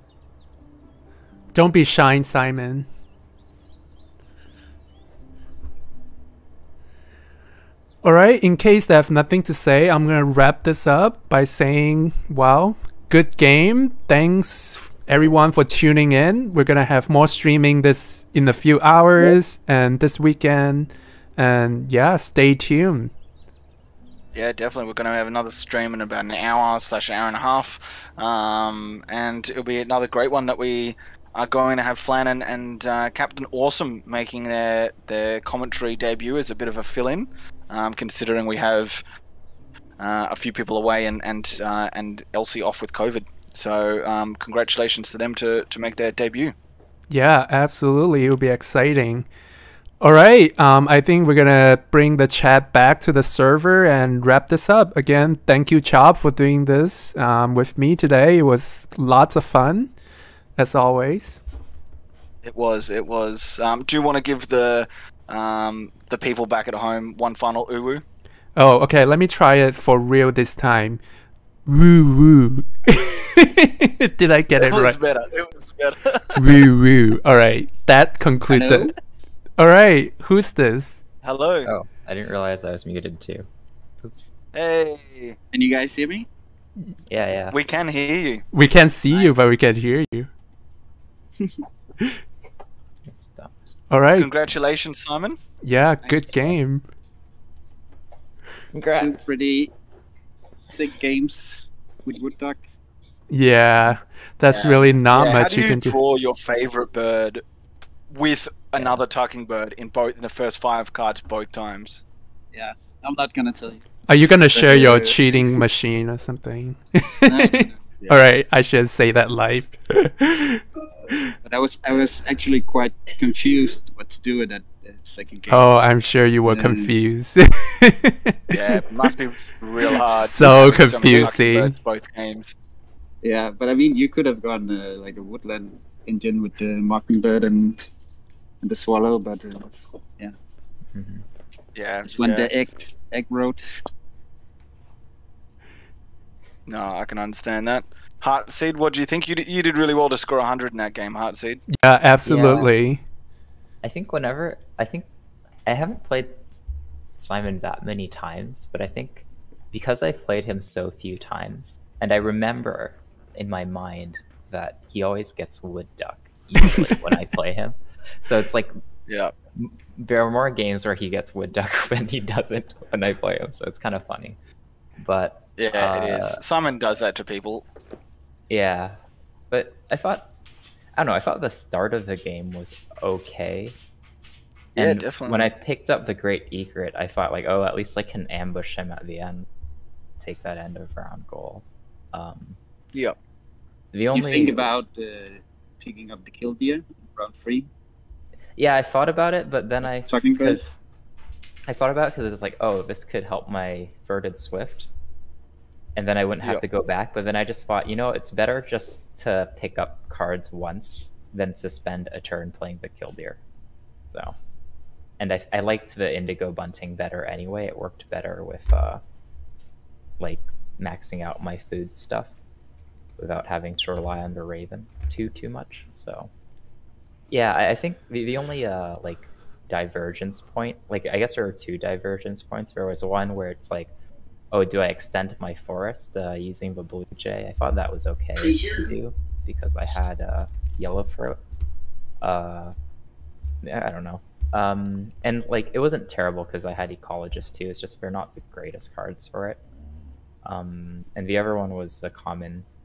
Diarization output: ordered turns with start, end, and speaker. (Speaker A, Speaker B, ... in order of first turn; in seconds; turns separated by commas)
Speaker A: 1.5-2.9, Speaker A: 8.0-23.1, Speaker B: 24.3-39.0, Speaker B: 40.0-46.5, Speaker A: 47.1-49.3, Speaker A: 50.0-59.9, Speaker A: 60.6-61.4, Speaker B: 62.4-68.0, Speaker A: 68.6-71.0, Speaker A: 71.7-75.0, Speaker B: 74.6-76.6, Speaker A: 76.4-78.9, Speaker C: 78.5-78.9, Speaker A: 79.6-81.0, Speaker B: 81.2-81.7, Speaker D: 81.7-83.5, Speaker D: 84.0-84.3, Speaker B: 84.5-85.4, Speaker C: 85.5-86.3, Speaker D: 87.1-87.6, Speaker B: 87.5-88.5, Speaker A: 88.5-90.3, Speaker D: 93.1-93.8, Speaker A: 93.9-94.3, Speaker B: 94.2-95.4, Speaker A: 95.6-96.8, Speaker D: 98.7-99.3, Speaker C: 98.9-99.7, Speaker C: 100.7-102.7, Speaker A: 103.3-106.0, Speaker B: 104.5-107.4, Speaker B: 108.1-112.0, Speaker C: 112.5-113.8, Speaker A: 114.1-121.3, Speaker C: 114.4-115.6, Speaker C: 117.3-117.8, Speaker C: 121.4-125.7, Speaker A: 125.5-128.8, Speaker C: 126.5-126.9, Speaker B: 128.5-132.6, Speaker A: 130.0-131.7, Speaker C: 133.2-137.8, Speaker C: 138.6-140.3, Speaker D: 140.9-141.2, Speaker B: 141.8-142.5, Speaker C: 142.1-143.7, Speaker B: 146.7-151.6, Speaker A: 151.7-153.0, Speaker D: 152.3-152.7, Speaker D: 153.8-155.1, Speaker D: 155.7-156.5, Speaker D: 157.2-168.7, Speaker B: 169.1-169.3, Speaker D: 169.6-174.4, Speaker D: 175.0-176.4, Speaker B: 175.6-177.7, Speaker D: 178.5-179.0, Speaker D: 179.5-180.3, Speaker D: 181.0-183.8, Speaker B: 184.8-185.5, Speaker D: 184.8-189.5, Speaker D: 190.2-192.6, Speaker D: 193.9-194.7, Speaker C: 194.1-197.7, Speaker D: 198.6-200.6, Speaker C: 199.8-200.7, Speaker D: 201.7-204.9, Speaker D: 206.0-213.4, Speaker D: 215.2-219.0, Speaker D: 220.2-222.3, Speaker D: 223.2-226.3, Speaker D: 227.3-233.9, Speaker D: 234.5-241.4, Speaker D: 242.2-242.8, Speaker D: 243.6-249.6, Speaker D: 250.4-252.7